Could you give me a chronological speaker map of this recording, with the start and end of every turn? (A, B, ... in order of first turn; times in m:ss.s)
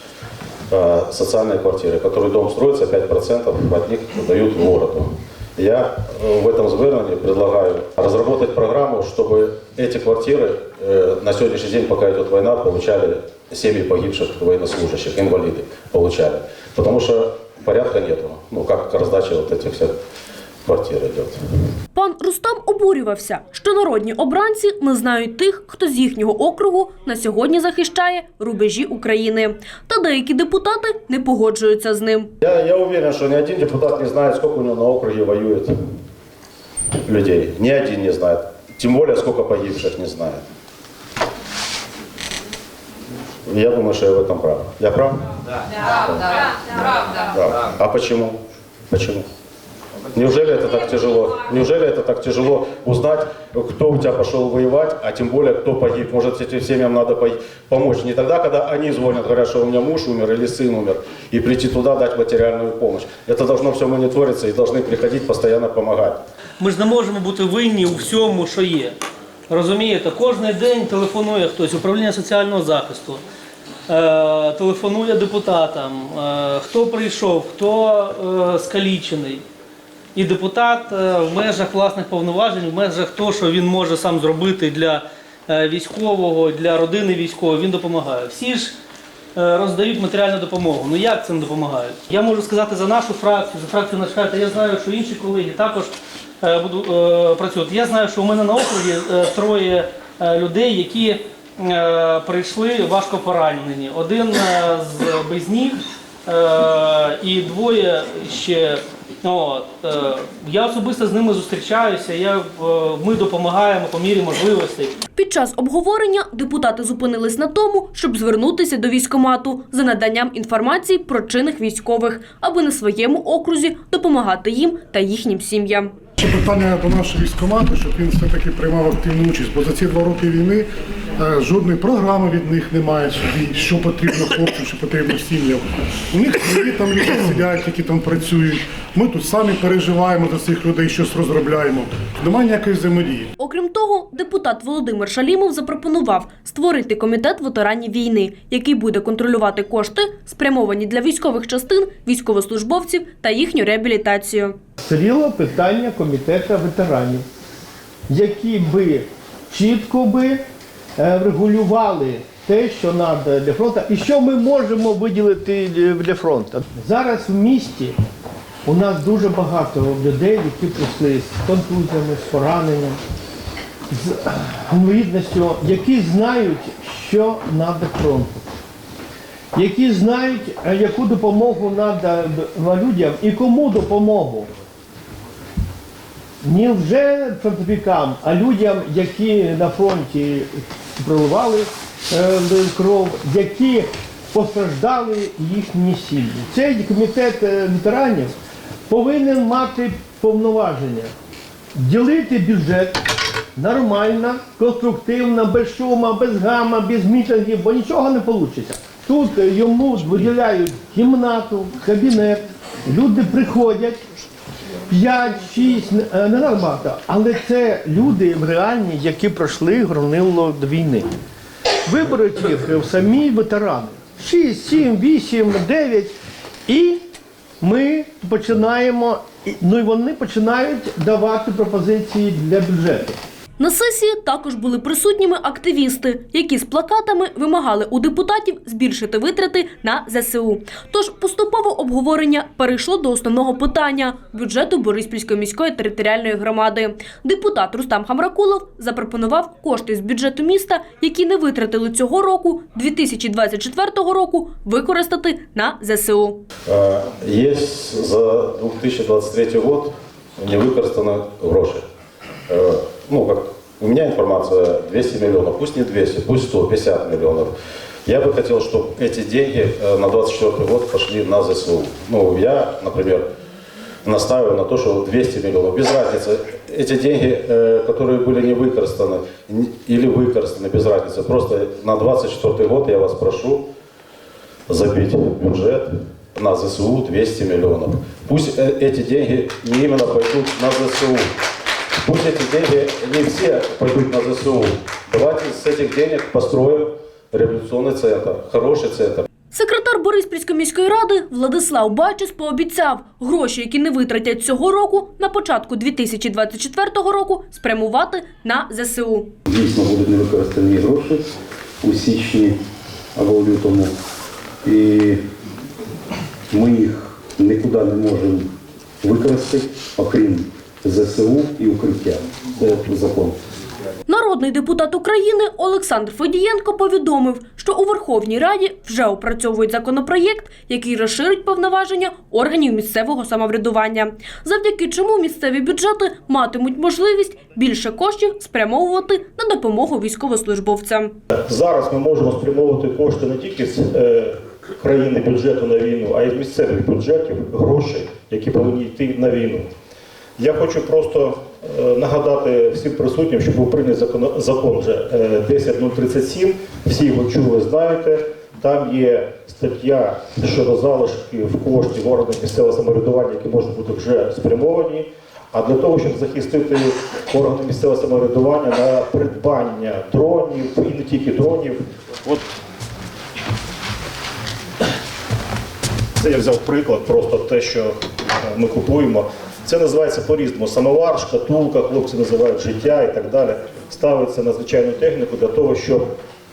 0:00.7-0:19.9 A
0:20.6-0:21.4 A
0:21.9-0:32.3 B
0:32.4-0:35.7 A
0:37.0-0:40.4 A
0:43.4-0:45.2 A
0:47.3-0:48.4 A
0:48.9-0:49.2 A
0:50.1-1:06.2 A
1:06.6-1:08.9 C
1:09.5-1:13.2 C
1:13.9-1:19.4 C
1:20.1-1:28.7 C
1:29.3-1:54.9 C
1:55.2-2:05.9 B
2:06.2-2:23.3 D
2:23.4-2:34.6 B
2:34.8-2:37.2 E
2:38.1-2:40.4 E
2:41.0-2:47.9 E
2:48.6-2:53.0 E
2:53.9-2:58.4 E
2:59.5-3:04.5 E
3:06.4-3:18.3 E
3:18.9-3:21.1 E
3:21.8-3:23.0 E
3:23.6-3:34.0 E
3:34.9-3:41.1 E
3:41.8-3:46.1 E
3:46.7-3:47.0 E
3:47.6-3:53.2 E
3:53.6-4:16.4 B
4:16.7-4:21.8 A
4:22.5-4:27.5 A
4:28.0-4:33.2 A
4:34.0-4:43.6 A
4:44.7-4:51.3 A
4:52.0-4:59.2 A
4:59.5-5:09.3 B
5:09.5-5:11.3 F
5:11.8-5:12.5 F
5:13.1-5:13.9 F
5:14.6-5:15.2 F
5:16.5-5:18.5 F
5:19.0-5:23.4 F
5:24.1-5:41.1 B
5:41.4-5:49.7 G
5:50.4-6:12.4 G
6:16.2-6:17.9 G
6:18.4-6:26.1 G